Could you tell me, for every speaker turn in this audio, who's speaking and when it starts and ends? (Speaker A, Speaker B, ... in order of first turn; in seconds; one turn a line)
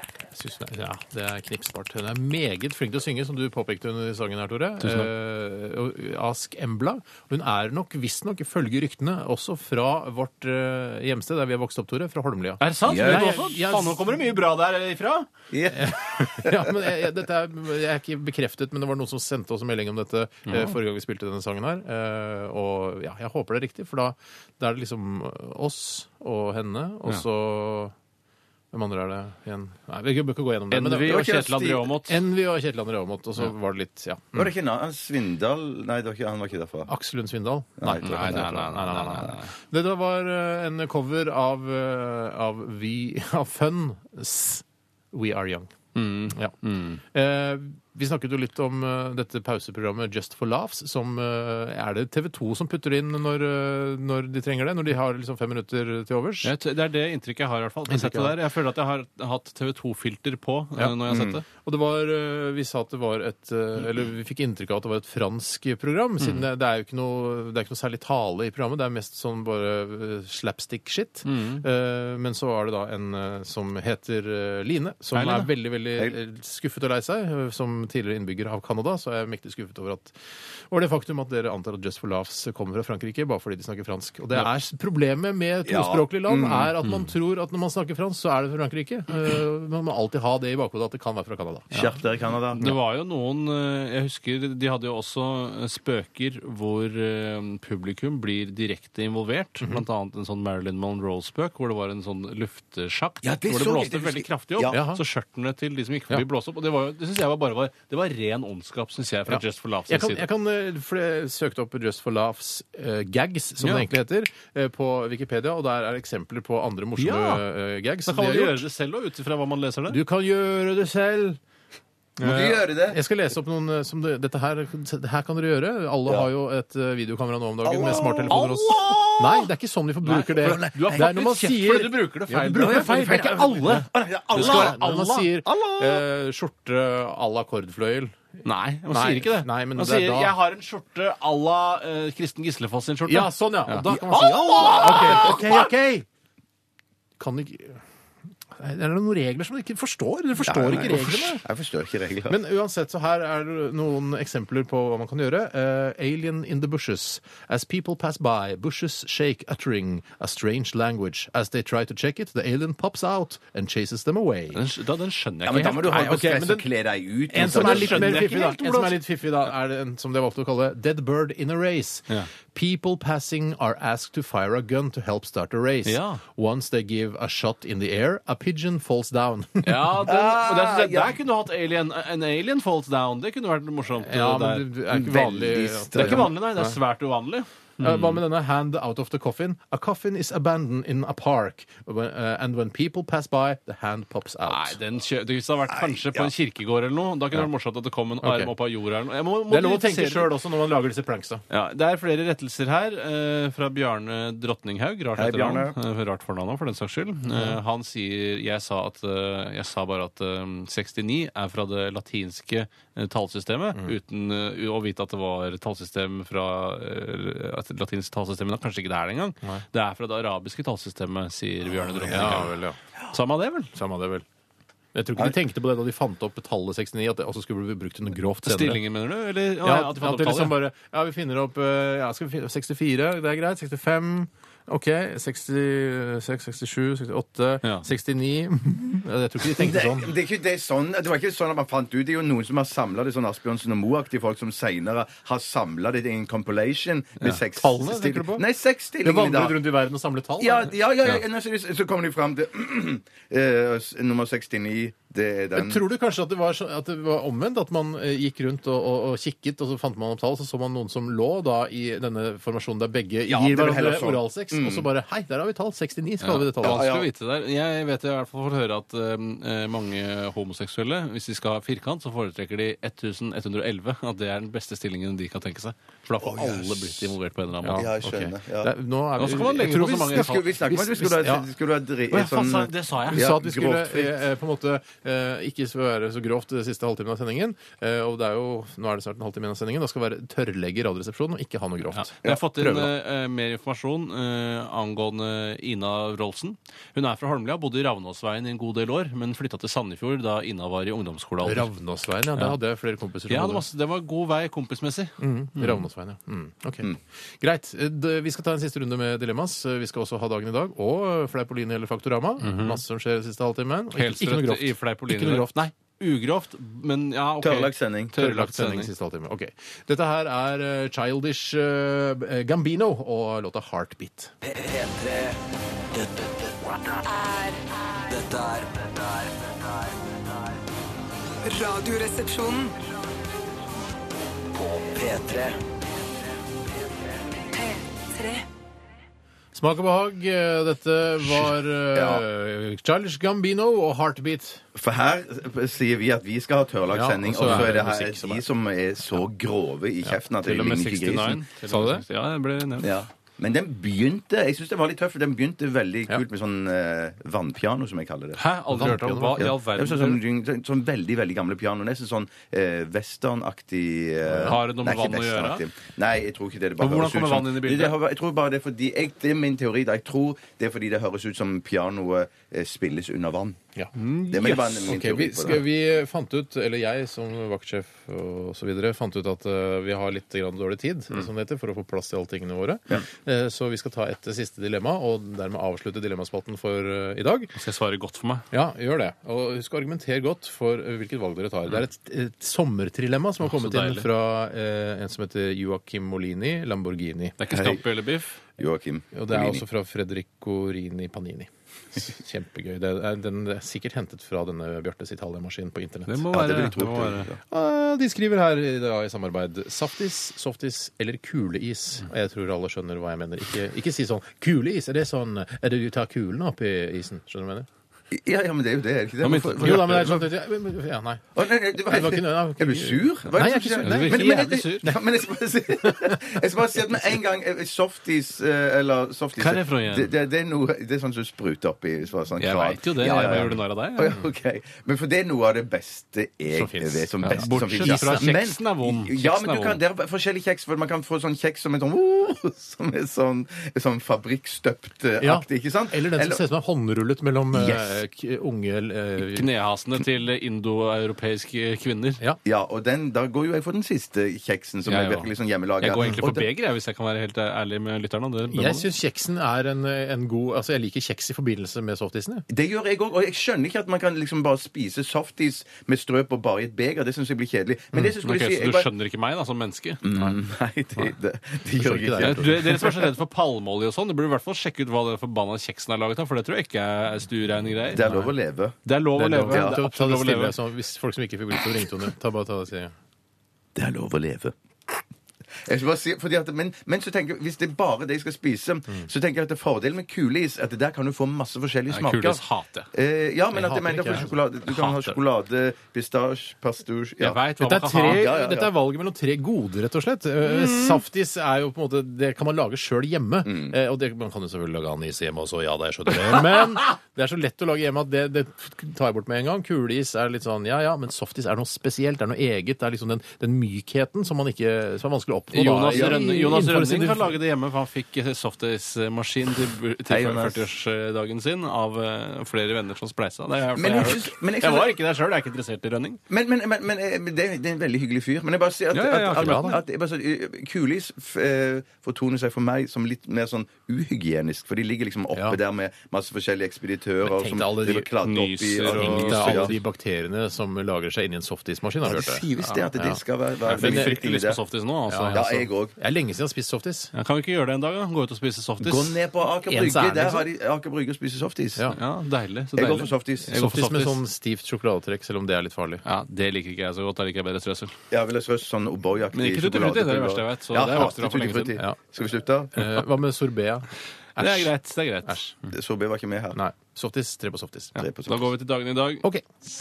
Speaker A: 0.3-14.2
Speaker B: 4.8-5.1
Speaker B: 12.6-15.3
Speaker C: 12.9-13.4
Speaker C: 15.5-16.7
Speaker A: 15.7-27.9
Speaker B: 20.5-20.7
Speaker A: 28.7-31.2
Speaker B: 30.7-32.2
Speaker C: 31.0-31.9
Speaker A: 32.1-34.5
Speaker C: 34.3-36.9
Speaker A: 36.9-45.7
Speaker C: 37.8-38.4
Speaker B: 38.0-39.5
Speaker B: 45.9-47.0
Speaker A: 46.3-46.5
Speaker A: 47.1-56.5
Speaker B: 56.4-61.4
Speaker A: 57.9-58.4
Speaker A: 60.8-80.2
Speaker C: 61.1-61.4
Speaker B: 71.2-71.6
Speaker B: 75.1-75.5
Speaker A: 80.7-92.0
Speaker C: 85.7-86.7
Speaker C: 91.7-92.7
Speaker B: 92.6-110.2
Speaker C: 103.2-104.8
Speaker A: 104.7-105.0
Speaker A: 109.3-118.6
Speaker B: 113.6-113.9
Speaker B: 117.0-117.4
Speaker B: 118.1-120.0
Speaker A: 119.9-121.4
Speaker A: 122.2-138.2
Speaker C: 122.2-123.0
Speaker C: 127.6-129.5
Speaker B: 127.8-129.1
Speaker B: 130.0-135.4
Speaker C: 130.2-131.1
Speaker C: 132.5-136.0
Speaker B: 138.4-143.9
Speaker A: 138.9-140.3
Speaker A: 143.1-146.1
Speaker C: 144.1-145.6
Speaker B: 144.6-145.3
Speaker A: 147.2-147.8
Speaker A: 148.5-151.4
Speaker C: 150.5-152.3
Speaker A: 152.3-164.6
Speaker B: 164.5-166.4
Speaker C: 165.4-168.3
Speaker A: 165.9-166.7
Speaker A: 167.3-180.0
Speaker B: 167.4-169.0
Speaker B: 175.8-176.2
Speaker B: 179.6-184.6
Speaker C: 180.1-181.2
Speaker A: 184.0-186.8
Speaker C: 184.9-186.3
Speaker B: 185.9-188.2
Speaker A: 187.8-194.8
Speaker B: 194.4-200.3
Speaker C: 195.8-196.3
Speaker A: 198.2-198.5
Speaker A: 199.5-201.4
Speaker B: 201.5-222.5
Speaker C: 205.2-205.7
Speaker C: 221.8-222.4
Speaker A: 222.1-222.8
Speaker B: 223.1-223.7
Speaker A: 223.7-224.2
Speaker A: 224.9-228.8
Speaker B: 228.4-230.6
Speaker A: 229.6-240.1
Speaker C: 239.6-249.6
Speaker A: 247.5-248.4
Speaker A: 249.0-250.7
Speaker C: 250.4-255.8
Speaker A: 255.5-266.9
Speaker C: 263.3-264.9
Speaker B: 266.2-277.9
Speaker C: 266.6-267.1
Speaker A: 276.3-277.1
Speaker A: 277.6-281.5
Speaker C: 277.8-278.7
Speaker B: 279.2-280.4
Speaker C: 279.8-284.1
Speaker B: 282.1-283.3
Speaker A: 283.1-292.9
Speaker B: 291.9-301.7
Speaker A: 301.4-303.6
Speaker B: 303.3-305.8
Speaker A: 305.2-315.7
Speaker B: 312.4-312.8
Speaker B: 313.9-318.9
Speaker C: 317.4-318.1
Speaker A: 318.1-324.3
Speaker D: 324.5-325.4
Speaker D: 325.9-329.9
Speaker D: 331.4-332.8
Speaker D: 334.5-335.6
Speaker D: 337.5-338.4
Speaker A: 339.5-344.6
Speaker C: 341.9-342.2
Speaker C: 344.7-351.4
Speaker A: 346.9-348.4
Speaker B: 347.4-347.7
Speaker B: 350.4-352.9
Speaker A: 351.6-352.0
Speaker C: 352.8-358.4
Speaker B: 358.4-360.2
Speaker A: 358.7-359.5
Speaker C: 359.4-373.6
Speaker A: 364.3-364.5
Speaker B: 364.4-365.6
Speaker B: 366.8-368.0
Speaker A: 373.8-387.6
Speaker B: 374.0-374.9
Speaker C: 374.3-375.6
Speaker B: 387.6-388.5
Speaker A: 388.5-397.4
Speaker B: 393.4-394.1
Speaker B: 397.4-398.4
Speaker C: 397.5-397.8
Speaker C: 398.6-399.6
Speaker A: 399.1-406.2
Speaker B: 406.1-407.3
Speaker C: 406.3-407.4
Speaker A: 407.5-417.7
Speaker C: 418.1-420.2
Speaker B: 419.2-420.2
Speaker A: 419.6-421.2
Speaker C: 421.3-446.4
Speaker A: 421.9-425.0
Speaker B: 423.8-424.9
Speaker A: 425.8-426.2
Speaker B: 429.4-430.1
Speaker B: 432.4-434.2
Speaker A: 436.5-438.3
Speaker B: 437.2-439.8
Speaker A: 445.2-449.5
Speaker C: 447.5-448.0
Speaker B: 449.3-452.2
Speaker C: 452.4-456.3
Speaker B: 454.8-458.9
Speaker A: 456.0-456.4
Speaker A: 458.5-462.4
Speaker C: 462.5-468.9
Speaker B: 468.2-470.4
Speaker C: 470.0-472.9
Speaker A: 471.8-472.9
Speaker B: 472.2-478.1
Speaker C: 477.9-478.8
Speaker A: 478.1-478.3
Speaker B: 478.9-480.6
Speaker A: 479.1-482.9
Speaker C: 479.5-479.8
Speaker C: 483.7-484.5
Speaker C: 485.6-492.4
Speaker B: 491.9-492.9
Speaker C: 492.9-497.4
Speaker A: 493.5-495.1
Speaker B: 497.2-498.3
Speaker A: 497.6-517.3
Speaker C: 498.0-498.7
Speaker B: 500.4-501.0
Speaker C: 503.4-503.7
Speaker B: 515.5-526.2
Speaker C: 515.9-516.2
Speaker C: 520.1-520.6
Speaker C: 523.8-524.9
Speaker C: 526.3-539.7
Speaker B: 528.9-529.8
Speaker A: 529.4-529.8
Speaker A: 537.2-538.1
Speaker B: 538.2-539.8
Speaker A: 538.9-544.1
Speaker C: 542.0-544.6
Speaker B: 543.6-545.5
Speaker A: 545.1-547.1
Speaker C: 545.3-545.9
Speaker B: 547.1-549.2
Speaker C: 548.8-551.9
Speaker A: 549.6-550.5
Speaker B: 551.9-554.2
Speaker C: 552.8-553.5
Speaker A: 553.5-556.0
Speaker B: 556.0-558.0
Speaker C: 558.1-562.8
Speaker B: 559.3-561.8
Speaker A: 562.7-564.7
Speaker B: 564.4-565.5
Speaker C: 565.7-566.6
Speaker A: 566.5-568.0
Speaker C: 568.0-568.5
Speaker B: 568.0-569.2